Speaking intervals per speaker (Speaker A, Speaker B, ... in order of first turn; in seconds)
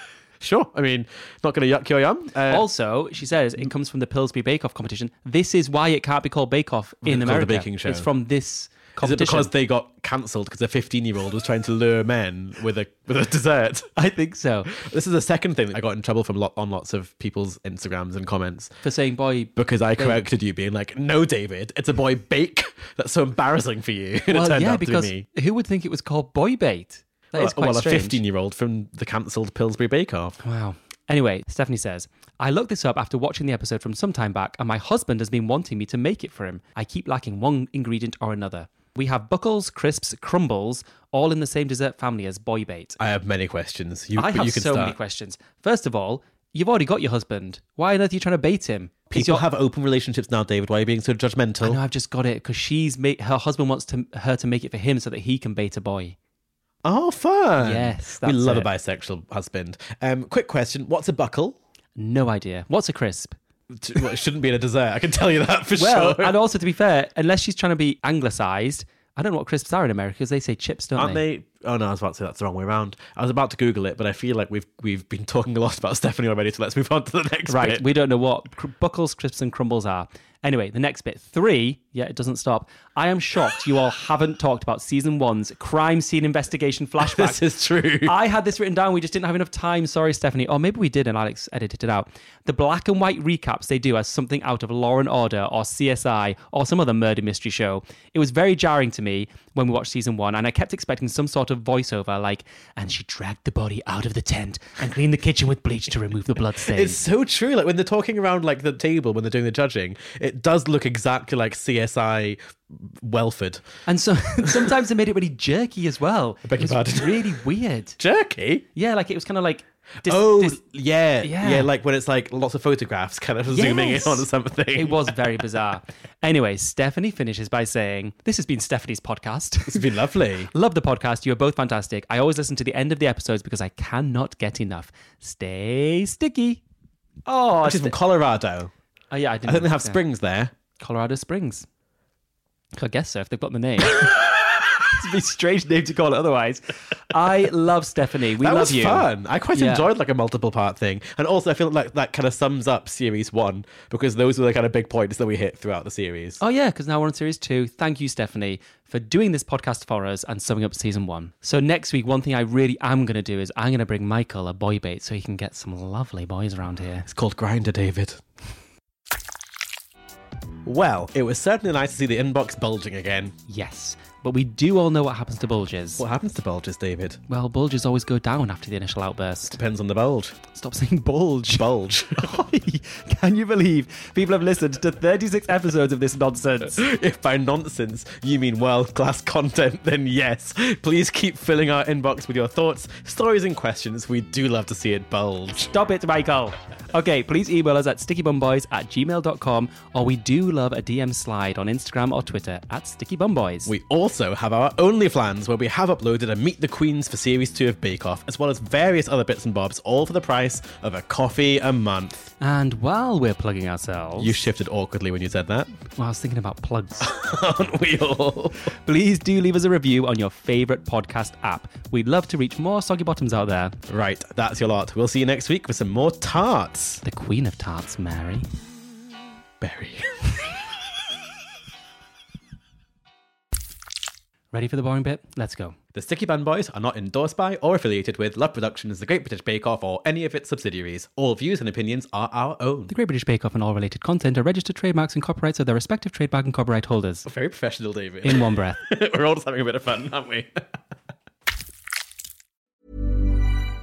Speaker A: 0.4-2.7, 7.0-8.1, 9.0-13.9, 14.7-18.7, 19.6-25.3, 27.3-30.4, 43.0-45.0, 49.1-51.8, 56.8-61.6, 63.7-66.3, 71.0-77.8, 87.0-88.1, 106.7-113.7, 116.4-117.4, 118.0-118.6, 120.0-125.4, 129.7-130.5, 137.6-138.7, 139.4-140.5, 148.4-156.4, 167.1-168.2, 170.6-173.3, 176.0-177.2, 179.6-180.3, 181.5-182.4, 186.7-195.7, 203.7-212.2, 214.2-215.7, 217.0-218.7, 223.9-227.0, 229.6-230.5, 235.9-242.9, 247.3-250.6
Speaker B: 2.5-9.5, 13.9-14.7, 18.8-20.2, 24.3-28.2, 30.4-43.0, 44.1-49.4, 51.6-56.1, 57.6-58.7, 62.0-63.3, 65.8-71.2, 77.5-87.4, 88.0-107.0, 113.8-118.0, 118.7-120.6, 121.2-121.7, 123.5-129.8, 130.5-136.6, 137.2-137.9, 139.1-140.0, 140.8-141.7, 142.8-144.1, 144.8-149.9, 156.4-167.1, 173.5-176.0, 177.3-179.6, 180.5-181.7, 182.2-186.8, 195.6-203.7, 212.4-214.3, 215.9-217.1, 218.8-223.8, 227.0-228.5, 234.5-235.8, 242.9-247.3, 248.2-248.8